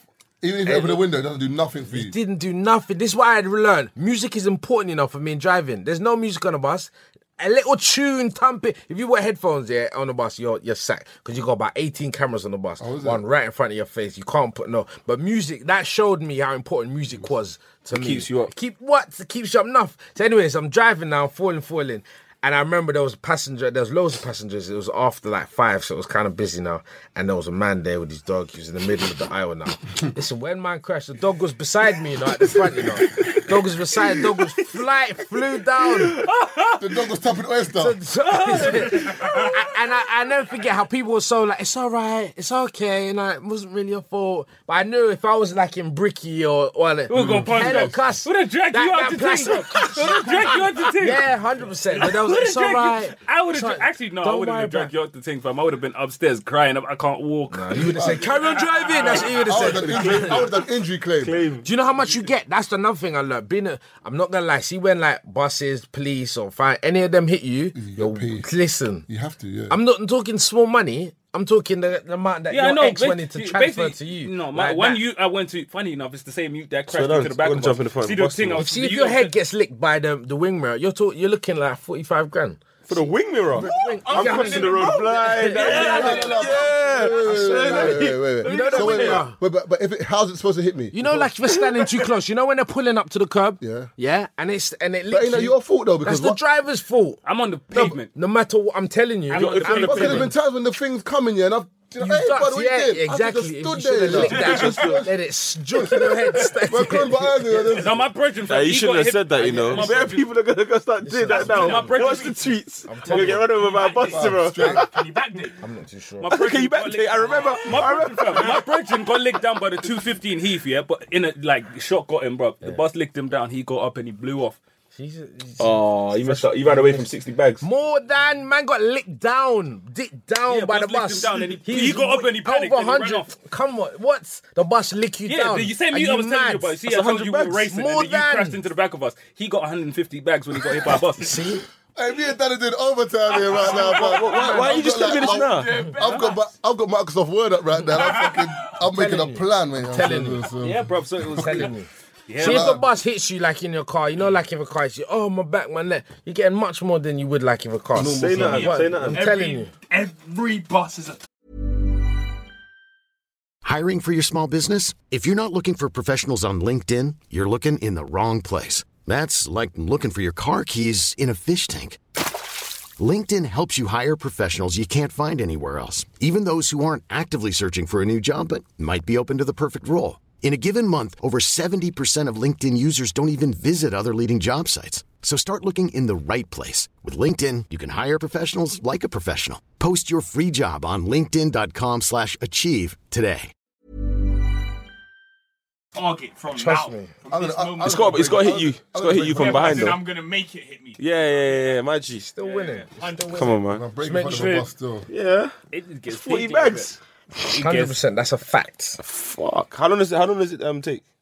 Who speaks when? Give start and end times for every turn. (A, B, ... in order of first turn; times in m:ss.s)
0:00.4-0:02.2 A
0:00.6-0:01.0 B
0:01.9-0:36.2 B
0:12.8-0:13.2 A
0:17.9-0:18.5 C
0:35.9-0:37.2 D
0:36.8-0:38.0 A
0:37.8-0:54.9 B
0:38.2-0:39.6 D
0:47.1-0:51.3 D
0:47.1-0:48.0 A
0:51.9-0:58.2 D
0:57.5-1:00.4 B
0:57.9-0:58.3 A
0:58.3-0:59.4 E
0:59.4-1:01.4 A
0:59.6-1:00.6 C
1:01.2-1:01.7 C
1:01.6-1:09.1 B
1:07.7-1:08.5 A
1:09.1-1:09.8 A
1:09.7-1:15.0 B
1:12.5-1:19.3 D
1:16.9-1:18.7 C
1:18.6-1:22.6 B
1:22.9-1:29.2 C
1:23.5-1:29.4 B
1:23.6-1:27.0 E
1:25.6-1:31.3 A
1:30.9-1:37.2 B
1:33.6-1:33.9 A
1:35.1-1:36.4 A
1:37.2-1:38.1 D
1:38.1-1:40.3 B
1:39.3-1:40.3 D
1:39.3-1:40.3 C
1:39.8-1:45.1 A
1:42.0-1:47.7 B
1:44.1-1:45.0 E
1:44.4-1:45.0 C
1:45.7-1:48.0 A
1:47.7-1:50.2 D
1:48.5-1:54.8 C
1:49.4-1:50.1 B
1:51.0-1:52.0 B
1:51.3-1:52.4 D
1:51.5-1:52.5 E
1:52.9-1:53.5 B
1:53.1-1:55.6 E
1:54.1-1:54.9 A
1:55.6-1:56.4 B
1:56.2-2:04.6 D
1:56.3-1:58.6 C
1:57.4-1:58.6 E
2:05.0-2:07.1 B
2:05.6-2:07.6 C
2:07.6-2:16.8 B
2:10.5-2:13.3 D
2:15.3-2:21.4 D
2:16.9-2:17.7 C
2:17.7-2:18.6 B
2:21.0-2:21.6 B
2:22.0-2:31.7 A
2:23.3-2:26.4 E
2:23.7-2:25.7 C
2:27.9-2:28.5 E
2:28.9-2:30.4 B
2:30.6-2:31.7 D
2:31.3-2:31.9 B
2:32.3-2:32.8 D
2:32.4-2:32.8 A
2:32.4-2:39.7 B
2:38.0-2:38.8 A
2:38.0-2:39.3 C
2:38.4-2:41.2 E
2:43.6-2:52.3 F
2:53.0-3:13.5 F
3:16.0-3:18.6 E
3:16.5-3:17.1 B
3:17.3-3:20.0 A
3:17.8-3:20.0 C
3:19.1-3:21.7 E
3:21.0-3:22.3 C
3:22.2-3:24.6 B
3:22.4-3:23.6 E
3:23.3-3:23.8 C
3:23.7-3:25.1 A
3:24.3-3:24.7 D
3:25.1-3:25.5 C
3:25.7-3:28.0 D
3:26.1-3:27.0 C
3:27.5-3:29.0 B
3:29.0-3:31.0 C